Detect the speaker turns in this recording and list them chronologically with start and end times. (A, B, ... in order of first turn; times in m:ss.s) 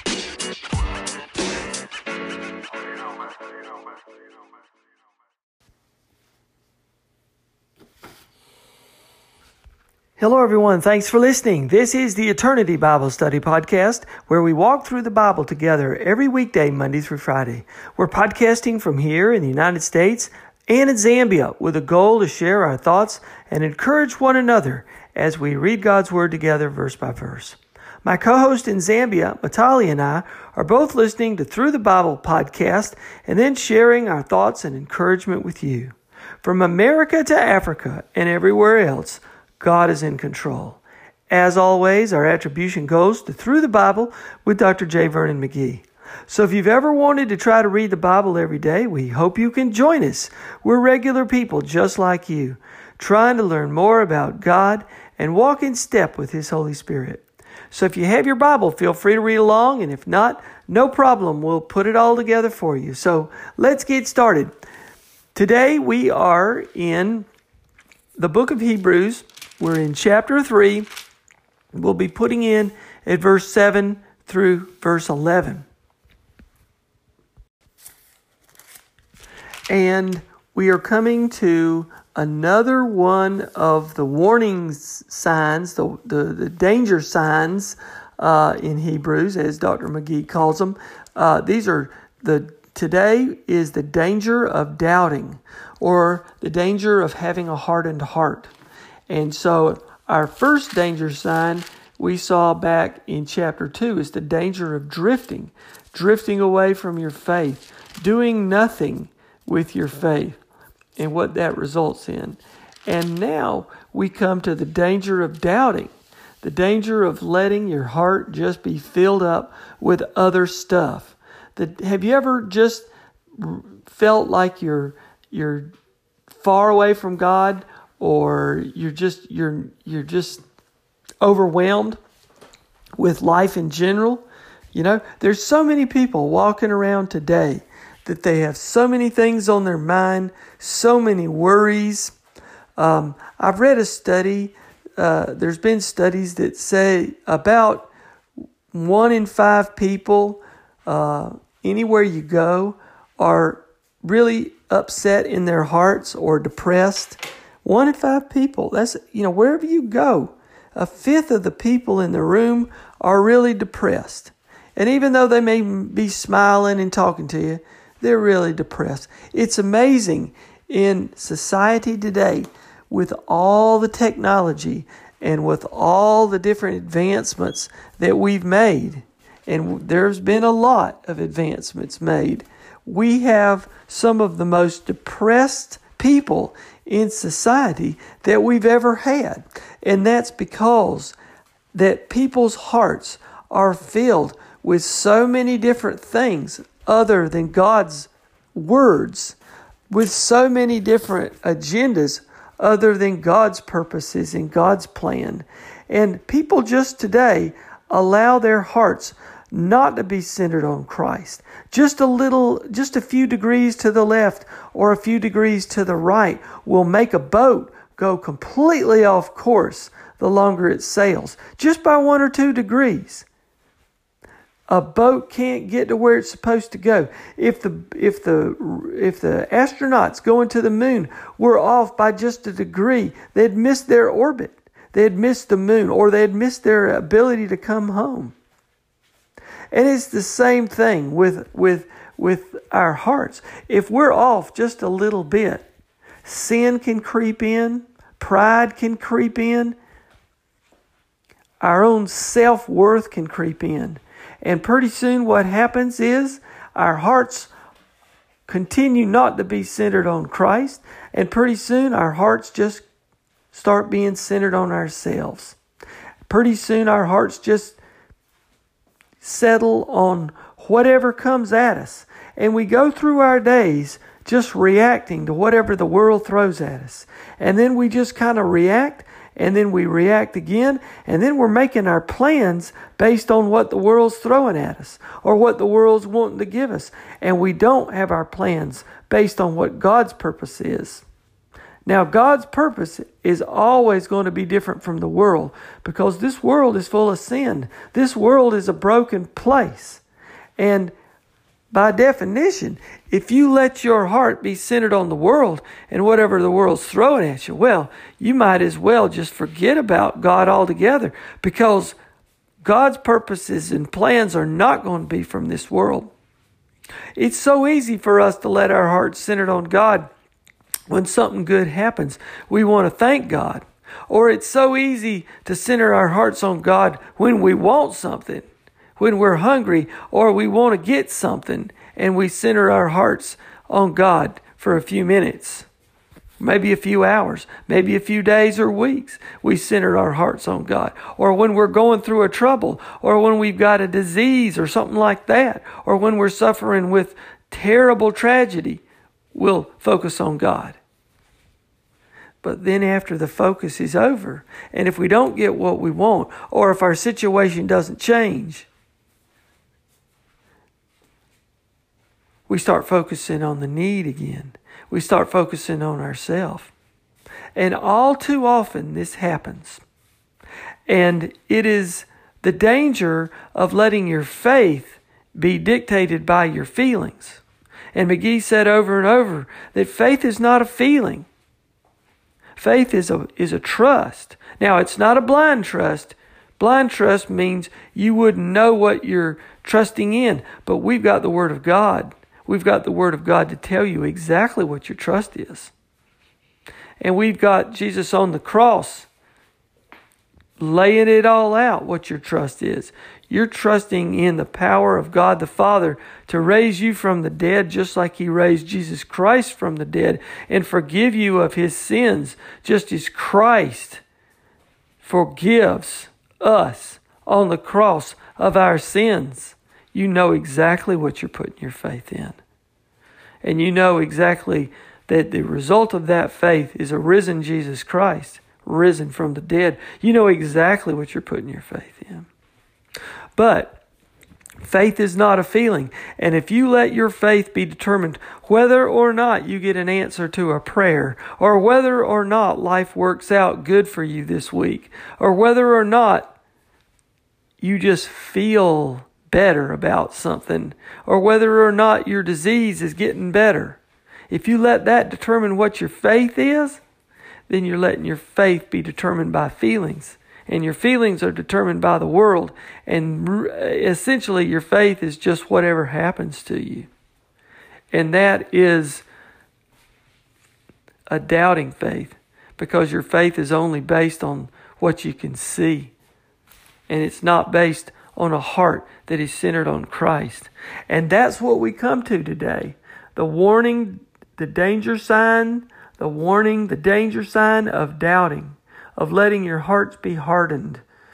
0:10.2-1:04.5 A
1:05.3-1:07.3 A
1:08.2-1:10.9 A
1:11.7-1:15.6 A
1:19.7-1:38.5 A
1:39.1-1:50.4 A
1:51.0-2:05.7 A
2:06.3-2:10.4 A
2:11.2-2:12.0 A
2:13.0-2:22.1 A
2:22.8-2:27.9 A
2:28.7-3:11.2 A
3:11.7-3:19.4 A
3:19.9-3:43.2 A
3:44.7-3:58.3 A
3:59.7-4:05.7 A
4:06.2-4:09.8 A
4:11.6-4:17.5 A
4:18.5-4:22.8 A
4:23.5-4:25.6 A
4:26.3-4:27.8 A
4:29.2-4:51.0 A
4:51.8-5:00.0 A
5:00.6-5:00.9 A
5:01.7-5:12.0 A
5:12.6-5:16.1 A
5:17.2-5:20.1 A
5:20.9-5:28.4 A
5:29.0-5:35.7 A
5:36.4-5:48.8 A
5:49.3-5:50.8 A
5:52.4-5:58.7 A
6:02.5-6:06.7 A
6:07.5-6:09.8 A
6:10.9-6:17.4 A
6:17.9-6:21.3 A
6:22.6-6:35.7 A
6:37.0-6:39.1 A
6:40.6-6:54.0 A
6:55.0-7:02.4 A
7:03.4-7:12.3 A
7:13.4-7:13.8 A
7:14.6-7:26.3 A
7:27.6-7:33.8 A
7:34.3-7:36.8 A
7:37.5-7:46.9 A
7:47.9-7:49.0 A
7:51.1-7:55.9 A
7:56.9-8:10.8 A